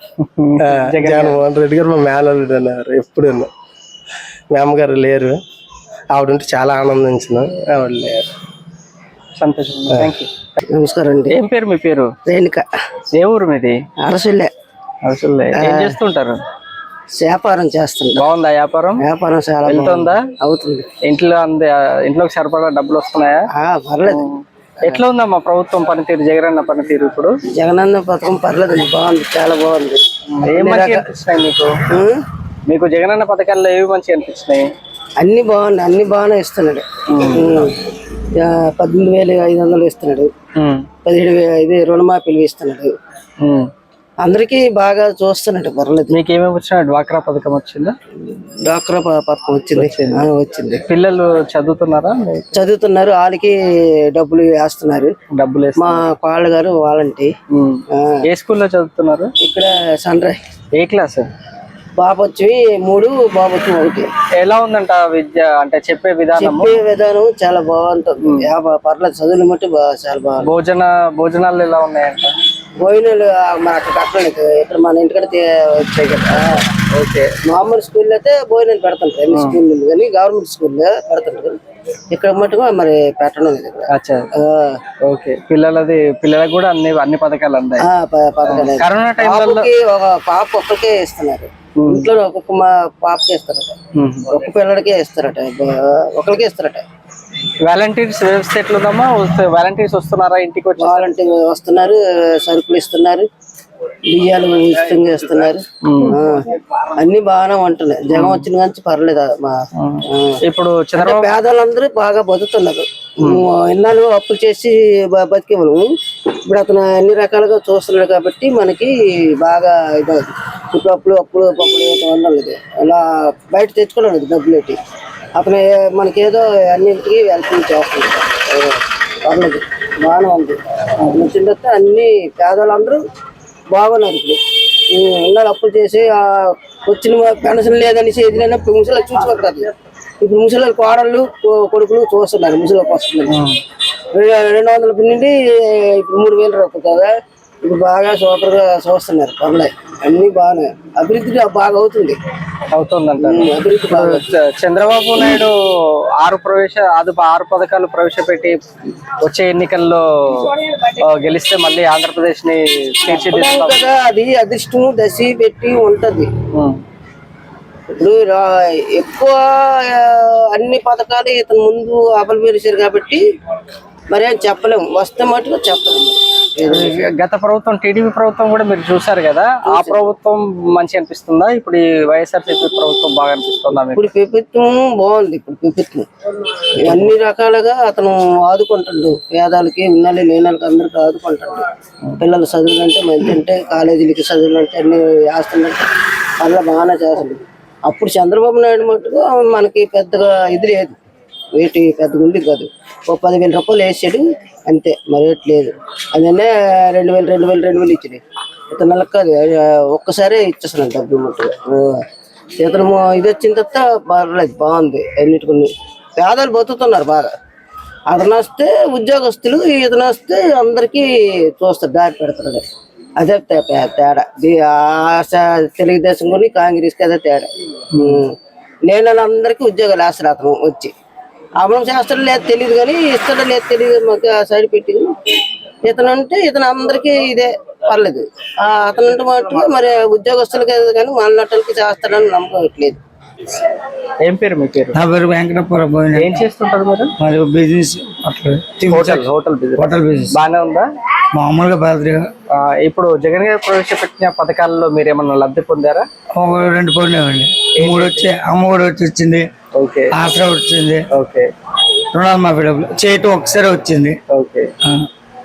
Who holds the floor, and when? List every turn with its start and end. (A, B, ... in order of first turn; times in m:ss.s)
0:00.2-0:01.4 A
0:00.6-0:03.5 B
0:04.5-0:05.4 B
0:06.1-0:08.3 B
0:09.4-0:10.6 A
0:10.7-0:11.4 C
0:11.3-0:12.1 A
0:12.3-0:12.6 C
0:13.2-0:13.8 A
0:14.0-0:14.5 C
0:15.0-0:16.4 A
0:15.5-0:16.0 C
0:17.2-0:18.2 C
0:18.2-0:19.0 A
0:19.0-0:20.9 C
0:19.6-0:20.3 A
0:21.0-0:23.4 A
0:23.6-0:24.3 C
0:24.1-0:27.3 A
0:27.6-0:31.1 C
0:30.3-0:31.8 A
0:31.9-0:32.2 C
0:32.7-0:34.7 A
0:35.2-0:37.8 C
0:37.1-0:37.5 A
0:38.4-0:40.3 C
0:40.6-0:40.9 A
0:41.0-0:42.9 C
0:43.4-0:43.7 A
0:44.2-0:46.2 C
0:46.1-0:47.9 A
0:48.3-0:50.8 C
0:49.8-0:50.3 A
0:50.9-0:52.5 A
0:52.5-0:53.6 C
0:54.1-0:55.1 C
0:55.4-0:56.0 A
0:55.8-0:57.3 C
0:57.5-0:59.3 A
0:57.9-0:58.2 C
0:59.4-1:00.4 C
1:00.8-1:01.3 A
1:02.0-1:04.1 C
1:04.4-1:06.8 A
1:06.4-1:10.5 C
1:10.4-1:12.3 A
1:12.8-1:16.8 C
1:16.9-1:17.3 A
1:17.4-1:21.6 C
1:19.3-1:19.6 A
1:22.1-1:24.8 C
1:23.9-1:24.3 A
1:25.0-1:27.8 A
1:27.8-1:33.8 C
1:28.5-1:29.7 A
1:31.8-1:32.1 A
1:34.0-1:34.4 A
1:34.3-1:36.8 C
1:37.6-1:41.1 A
1:40.8-1:43.3 C
1:44.1-1:46.4 C
1:45.8-1:46.2 A
1:47.0-1:49.6 C
1:48.1-1:48.5 A
1:49.8-1:51.3 A
1:50.1-1:50.4 C
1:51.0-1:55.8 C
1:56.5-2:04.8 C
2:05.4-2:13.0 C
2:13.7-2:14.4 C
2:14.9-2:23.4 C
2:23.3-2:23.6 A
2:24.1-2:27.1 C
2:27.6-2:32.2 C
2:32.7-2:35.6 A
2:33.2-2:34.2 C
2:36.2-2:43.8 A
2:43.1-2:46.3 C
2:46.5-2:46.8 A
2:48.0-2:53.2 C
2:54.1-2:57.0 C
2:56.7-3:04.1 A
2:59.7-3:00.1 C
3:03.7-3:06.1 C
3:06.8-3:11.7 C
3:06.9-3:07.1 A
3:12.2-3:15.9 C
3:16.4-3:21.0 C
3:21.6-3:28.2 C
3:28.7-3:32.0 C
3:32.6-3:37.3 C
3:38.1-3:42.6 C
3:43.2-3:47.5 C
3:47.9-3:48.2 A
3:48.0-3:48.3 C
3:48.9-3:50.9 C
3:51.6-3:55.1 C
3:55.9-4:03.0 C
4:04.2-4:05.0 A
4:04.9-4:06.4 D
4:06.1-4:07.1 A
4:07.2-4:10.4 D
4:08.9-4:10.9 A
4:11.3-4:12.3 D
4:12.5-4:16.1 A
4:16.4-4:19.5 D
4:17.8-4:18.3 A
4:19.7-4:20.2 A
4:20.1-4:21.0 D
4:21.1-4:21.5 A
4:21.9-4:24.2 D
4:24.3-4:24.7 A
4:24.8-4:25.1 D